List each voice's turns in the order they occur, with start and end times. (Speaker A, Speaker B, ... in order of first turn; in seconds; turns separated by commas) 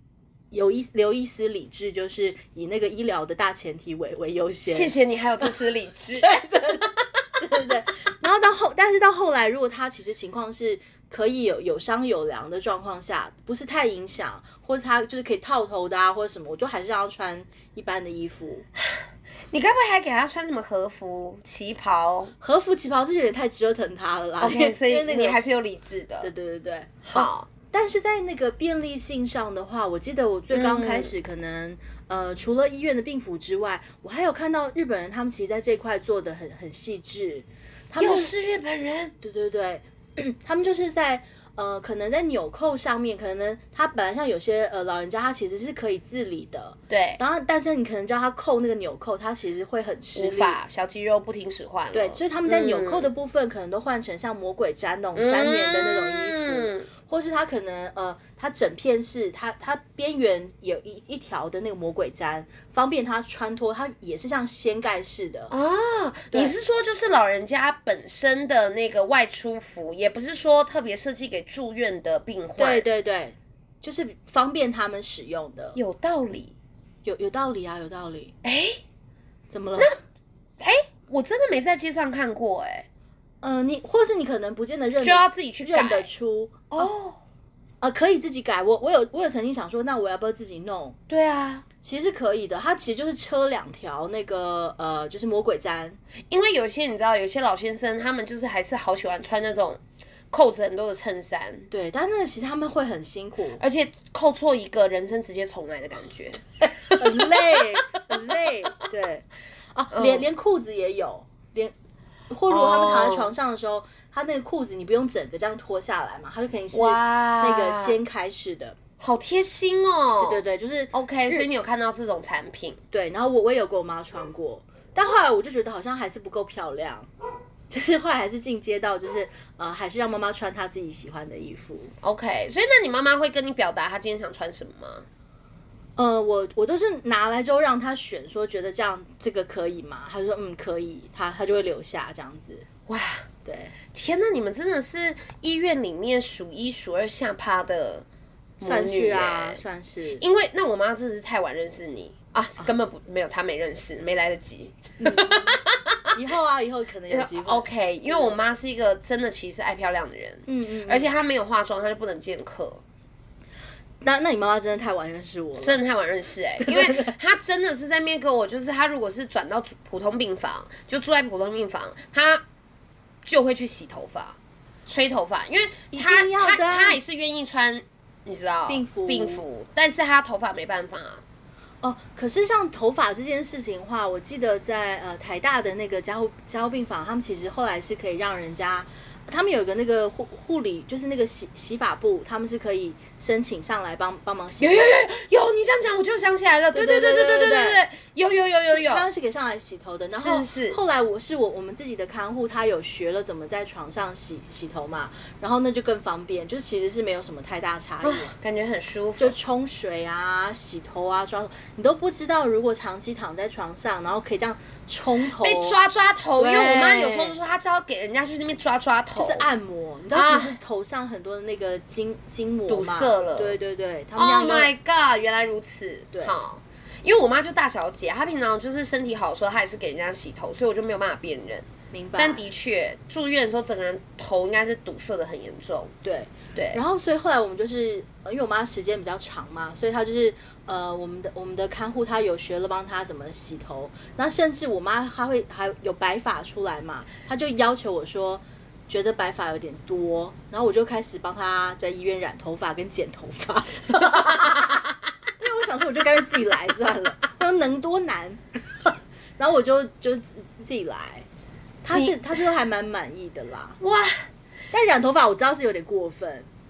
Speaker A: 0.5-5.5, Speaker B: 4.7-6.3, Speaker A: 6.2-18.6, Speaker B: 19.5-22.3, Speaker A: 22.4-25.4, Speaker B: 24.4-26.3, Speaker A: 26.2-38.3, Speaker B: 27.0-27.5, Speaker B: 30.5-31.1, Speaker B: 38.0-39.1, Speaker A: 39.2-50.6, Speaker B: 46.9-47.2, Speaker B: 50.1-53.1, Speaker A: 51.9-65.5, Speaker B: 55.1-56.9, Speaker B: 65.5-72.8, Speaker A: 66.3-66.5, Speaker A: 72.6-75.8, Speaker B: 75.7-76.5, Speaker A: 77.0-78.3, Speaker B: 78.4-78.8, Speaker A: 79.5-80.0, Speaker B: 80.6-82.8, Speaker A: 83.4-86.9, Speaker B: 85.0-86.1, Speaker B: 86.7-87.2, Speaker A: 87.8-91.0, Speaker B: 91.1-91.6, Speaker A: 91.8-96.0, Speaker B: 96.3-101.7, Speaker A: 101.7-103.6, Speaker B: 103.6-106.4, Speaker A: 106.9-111.7, Speaker B: 107.0-107.5, Speaker B: 109.9-110.2, Speaker A: 112.3-118.8, Speaker B: 112.5-113.3, Speaker B: 116.7-118.0, Speaker B: 119.0-120.4, Speaker A: 120.2-121.5, Speaker B: 120.9-122.8, Speaker A: 122.9-127.1, Speaker A: 127.7-131.9, Speaker B: 132.0-135.0, Speaker A: 136.0-142.7, Speaker B: 142.9-143.2, Speaker A: 143.4-143.7, Speaker B: 143.9-148.0, Speaker B: 148.6-149.6, Speaker A: 148.6-150.2, Speaker B: 150.2-155.9, Speaker A: 155.0-155.6, Speaker A: 156.1-158.3, Speaker B: 157.1-162.8, Speaker A: 160.4-161.1, Speaker A: 164.0-165.8, Speaker B: 165.6-172.4, Speaker A: 166.6-167.1, Speaker B: 173.2-181.2, Speaker A: 175.9-177.0, Speaker A: 178.7-179.4, Speaker A: 181.8-194.9, Speaker B: 194.6-199.1, Speaker A: 196.7-197.8, Speaker A: 198.6-208.3, Speaker B: 200.1-200.8, Speaker B: 208.0-209.3, Speaker A: 209.2-215.8, Speaker B: 215.2-219.5, Speaker A: 216.4-217.4, Speaker A: 219.1-224.7, Speaker B: 220.1-220.6, Speaker B: 222.7-223.6, Speaker B: 224.2-235.9, Speaker A: 231.9-232.4, Speaker A: 236.0-254.7, Speaker B: 236.5-236.8, Speaker A: 255.4-261.2, Speaker A: 261.8-263.8, Speaker B: 261.9-262.2, Speaker B: 263.8-264.3, Speaker A: 264.7-266.5